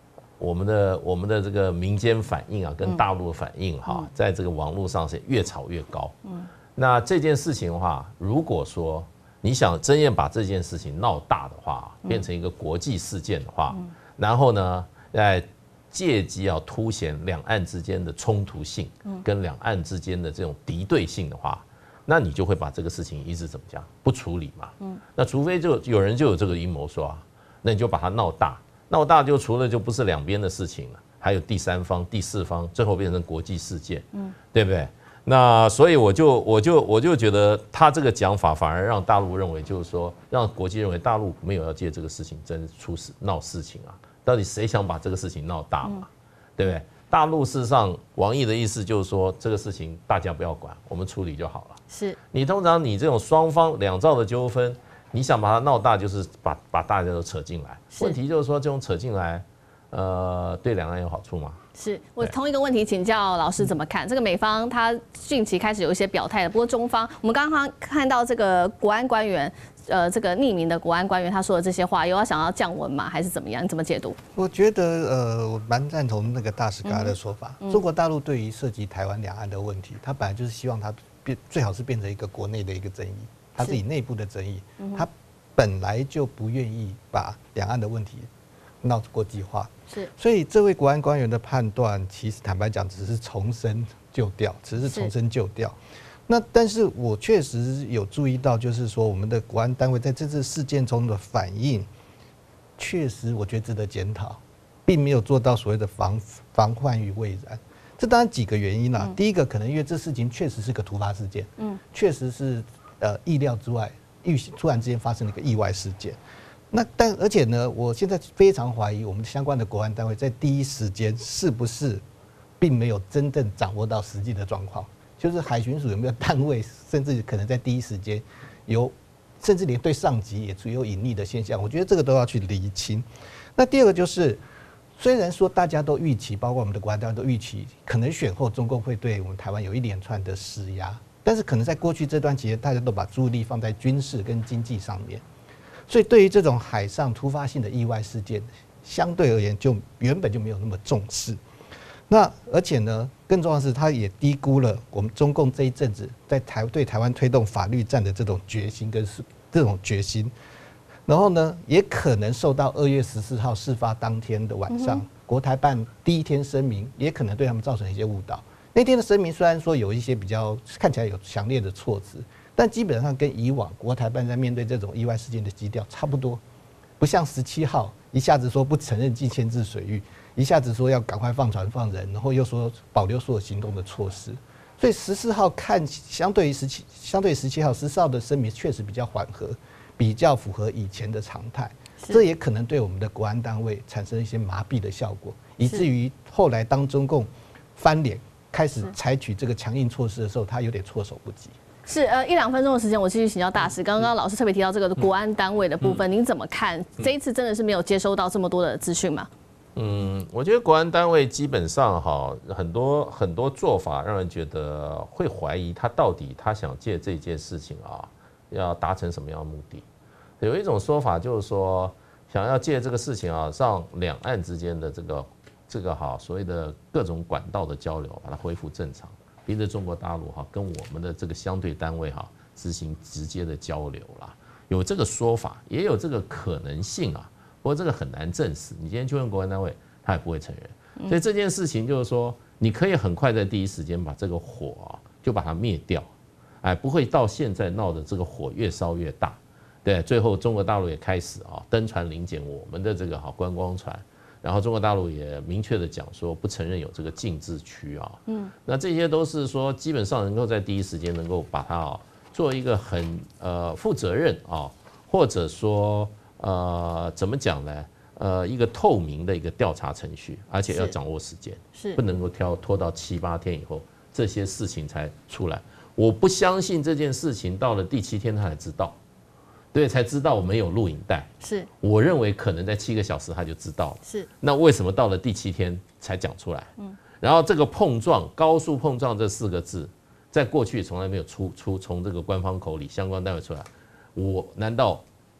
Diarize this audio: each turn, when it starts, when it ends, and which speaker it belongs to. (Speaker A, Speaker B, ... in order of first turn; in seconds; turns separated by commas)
Speaker A: 0.4-6.2, Speaker A: 6.8-61.6, Speaker B: 51.9-52.2, Speaker B: 57.9-58.2, Speaker B: 61.8-74.2, Speaker C: 74.4-88.3, Speaker B: 76.8-77.8, Speaker B: 84.8-85.0, Speaker C: 88.8-95.8, Speaker B: 94.8-95.1, Speaker C: 96.3-101.9, Speaker C: 102.8-116.2, Speaker C: 116.7-122.0, Speaker C: 122.6-134.4, Speaker C: 135.0-145.2, Speaker C: 145.9-151.4, Speaker C: 152.1-160.3, Speaker C: 161.1-176.4, Speaker B: 164.7-165.1, Speaker C: 177.0-201.6, Speaker B: 201.9-209.3, Speaker A: 209.8-219.8, Speaker A: 220.4-246.1, Speaker A: 246.6-279.0, Speaker B: 258.3-258.5, Speaker B: 270.7-270.9, Speaker B: 271.8-272.0, Speaker A: 279.7-295.0, Speaker B: 281.4-281.7